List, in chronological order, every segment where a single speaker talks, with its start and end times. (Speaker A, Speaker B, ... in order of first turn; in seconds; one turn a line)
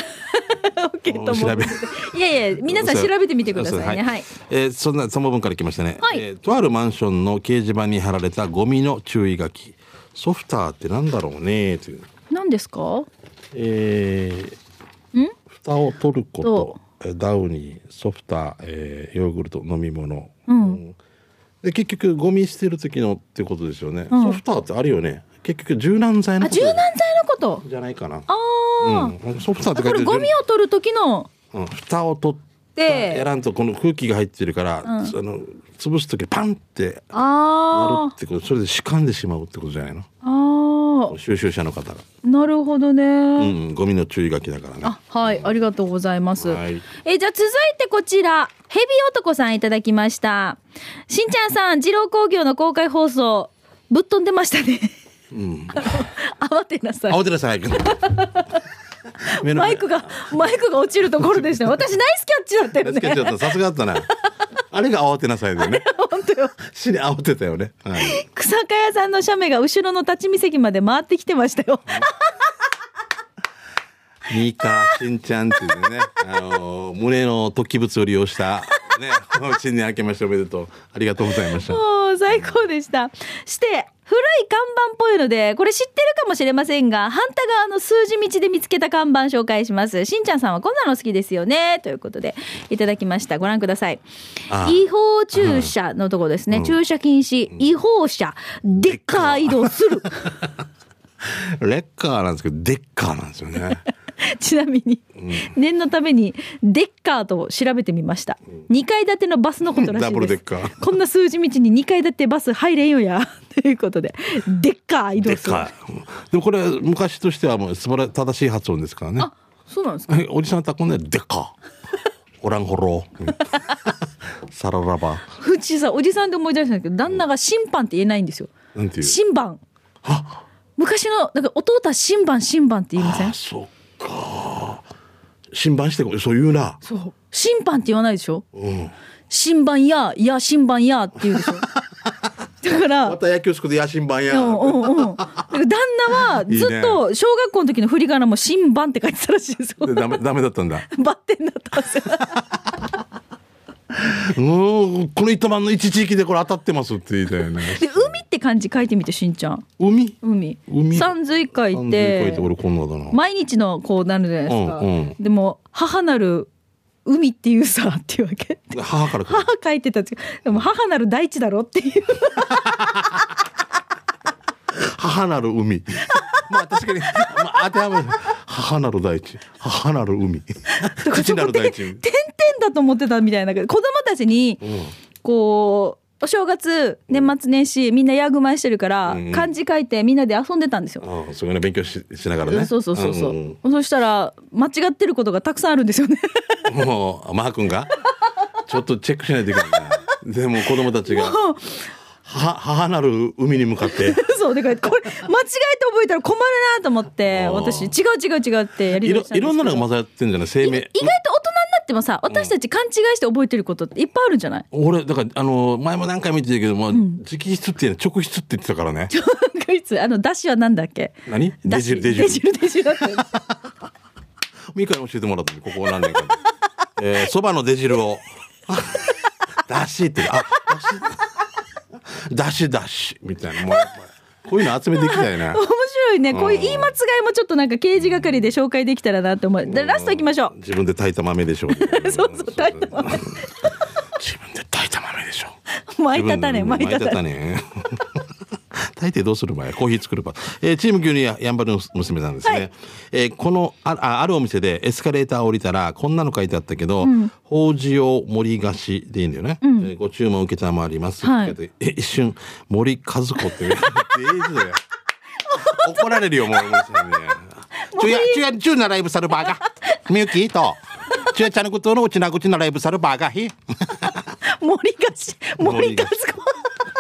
Speaker A: 0.2-4.3
Speaker B: 1.1-12.1
Speaker A: 12.3-13.1
Speaker B: 13.5-14.6
Speaker B: 15.5-21.0
Speaker A: 16.4-16.8
Speaker A: 20.5-20.8
Speaker B: 21.6-26.9
Speaker A: 24.1-24.4
Speaker A: 26.4-27.6
Speaker B: 27.6-28.3
Speaker A: 28.3-29.1
Speaker B: 28.8-30.3
Speaker A: 29.7-31.3
Speaker B: 31.5-37.1
Speaker A: 32.8-33.2
Speaker A: 34.8-35.1
Speaker A: 37.1-38.1
Speaker B: 37.7-40.1
Speaker A: 40.2-41.1
Speaker B: 41.1-42.0
Speaker A: 42.2-43.5
Speaker B: 43.4-45.5
Speaker A: 44.8-55.0
Speaker B: 46.4-46.8
Speaker B: 55.3-56.0
Speaker A: 55.7-57.2
Speaker B: 57.1-58.2
Speaker A: 57.9-58.5
Speaker A: 59.3-63.5
Speaker B: 59.4-60.6
Speaker B: 61.1-61.8
Speaker B: 62.8-64.1
Speaker B: 64.7-65.9
Speaker A: 65.6-66.6
Speaker B: 66.6-68.2
Speaker A: 68.0-72.1
Speaker B: 74.3-81.8
Speaker A: 81.3-94.0
Speaker B: 94.5-94.8
Speaker A: 94.6-100.3
Speaker B: 95.3-95.7
Speaker B: 98.8-99.7
Speaker B: 101.2-103.8
Speaker A: 104.2-115.7
Speaker B: 105.2-105.5
Speaker B: 109.7-110.8
Speaker B: 115.2-119.3
Speaker A: 119.2-120.2
Speaker B: 120.1-121.6
Speaker B: 122.4-123.9
Speaker B: 124.5-125.3
Speaker A: 125.4-129.6
Speaker B: 128.7-129.2
Speaker B: 130.0-130.4
Speaker A: 130.8-133.3
Speaker B: 133.0-134.8
Speaker B: 135.5-136.8
Speaker A: 136.8-138.4
Speaker B: 138.5-138.9
Speaker A: 139.3-141.7
Speaker B: 141.3-142.0
Speaker A: 142.6-143.2
Speaker B: 143.0-145.4
Speaker A: 144.3-150.1
Speaker B: 146.3-147.0
Speaker B: 149.8-150.9
Speaker A: 150.9-152.4
Speaker B: 152.3-152.6
Speaker B: 153.9-158.2
Speaker A: 157.6-159.7
Speaker B: 159.8-161.1
Speaker A: 160.2-162.5
Speaker B: 161.7-163.2
Speaker A: 163.1-166.5
Speaker B: 164.5-165.2
Speaker A: 167.1-172.9
Speaker B: 168.7-169.5
Speaker B: 172.7-173.2
Speaker B: 174.7-182.0
Speaker A: 180.7-184.6
Speaker B: 184.6-184.9
Speaker A: 185.2-191.0
Speaker B: 189.1-189.5
Speaker B: 191.0-193.6
Speaker A: 192.5-196.7
Speaker B: 196.7-197.9
Speaker B: 198.7-201.4
Speaker A: 201.1-201.9
Speaker B: 202.2-204.2
Speaker A: 203.9-209.9
Speaker B: 207.3-207.9
Speaker B: 209.0-211.1
Speaker A: 210.6-214.7
Speaker B: 214.7-219.1
Speaker A: 216.9-217.2
Speaker A: 219.1-223.4
Speaker B: 221.3-222.4
Speaker B: 224.7-226.4
Speaker B: 227.0-229.1
Speaker B: 229.7-231.3
Speaker B: 232.1-235.6
Speaker A: 234.9-240.5
Speaker B: 236.3-236.9
Speaker B: 239.7-243.4
Speaker A: 241.7-243.7
Speaker B: 244.2-245.6
Speaker A: 245.8-247.2
Speaker B: 246.1-264.8
Speaker A: 257.0-257.3
Speaker A: 259.6-259.9
Speaker A: 261.2-261.6
Speaker A: 265.5-267.0
Speaker B: 265.6-274.3
Speaker A: 267.8-268.4
Speaker A: 269.6-270.0
Speaker A: 274.4-276.7
Speaker B: 275.6-276.2